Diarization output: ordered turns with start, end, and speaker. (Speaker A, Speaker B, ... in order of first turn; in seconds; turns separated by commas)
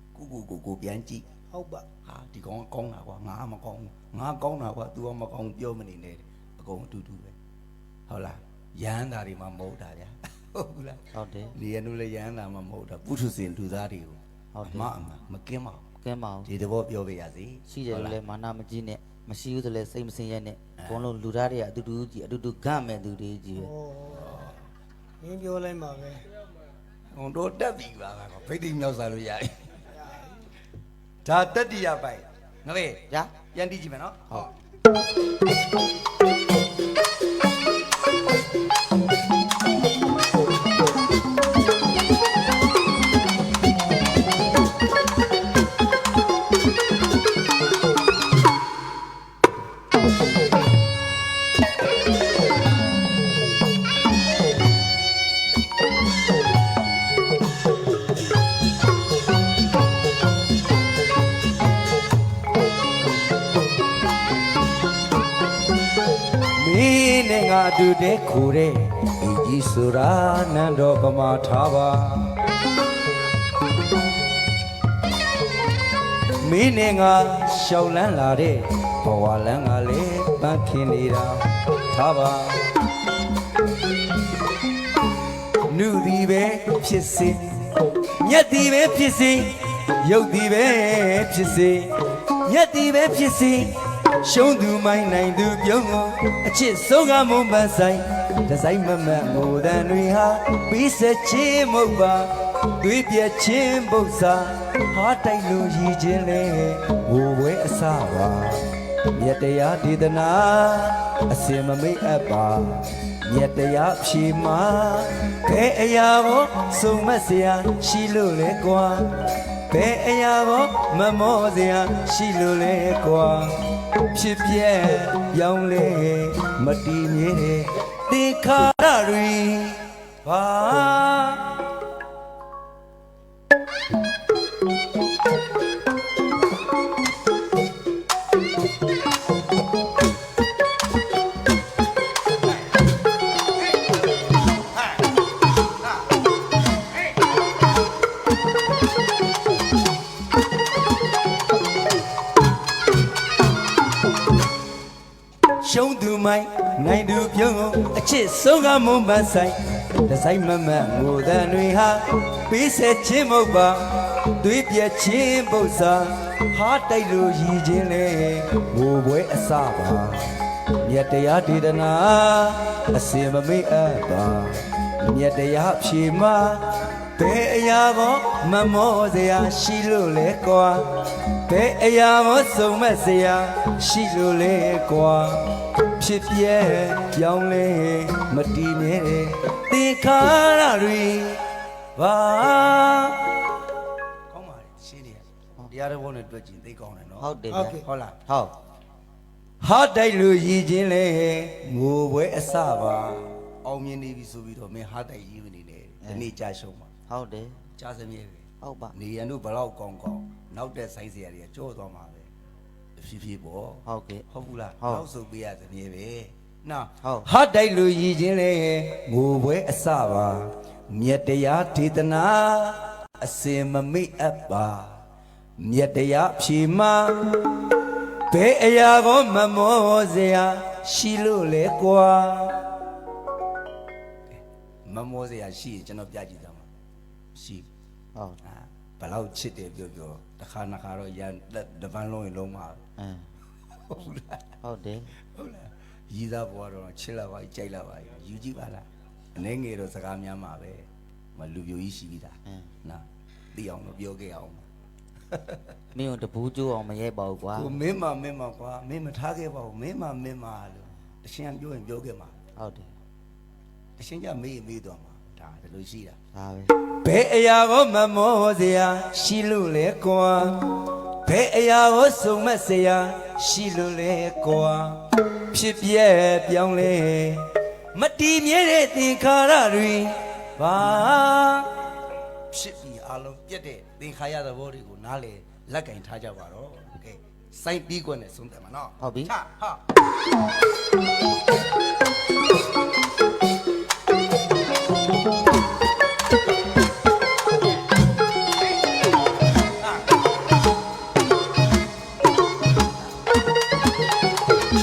Speaker A: 0.1-1.3, Speaker B: 1.5-1.9, Speaker A: 2.0-7.4, Speaker A: 8.1-15.8, Speaker C: 11.1-11.6, Speaker C: 14.6-14.9, Speaker C: 16.0-16.5, Speaker A: 16.5-18.2, Speaker C: 17.7-23.8, Speaker A: 20.8-21.0, Speaker B: 23.7-24.3, Speaker A: 24.1-24.6, Speaker B: 25.2-26.3, Speaker A: 27.1-29.9, Speaker A: 31.2-34.5, Speaker A: 66.5-72.4, Speaker A: 76.4-82.7, Speaker A: 85.6-131.9, Speaker A: 155.6-193.6, Speaker A: 194.3-198.2, Speaker C: 197.2-198.6, Speaker B: 197.5-197.8, Speaker A: 199.6-206.9, Speaker C: 206.0-206.3, Speaker C: 207.1-207.7, Speaker A: 207.7-212.3, Speaker C: 208.6-208.9, Speaker A: 213.0-225.0, Speaker C: 213.9-214.3, Speaker C: 214.8-215.1, Speaker C: 217.0-217.3, Speaker A: 225.6-227.6, Speaker A: 228.3-232.8, Speaker A: 234.8-236.7, Speaker A: 237.3-237.7, Speaker C: 238.2-238.4, Speaker A: 238.4-242.8, Speaker C: 243.0-243.3, Speaker A: 243.7-244.6, Speaker C: 244.6-245.2, Speaker A: 245.2-254.7, Speaker C: 252.5-252.7, Speaker A: 255.3-255.7, Speaker C: 255.9-257.8, Speaker A: 257.5-262.4, Speaker C: 262.6-262.9, Speaker A: 264.0-266.2, Speaker C: 266.3-266.8, Speaker A: 266.9-281.9, Speaker A: 282.5-289.8, Speaker C: 289.0-289.3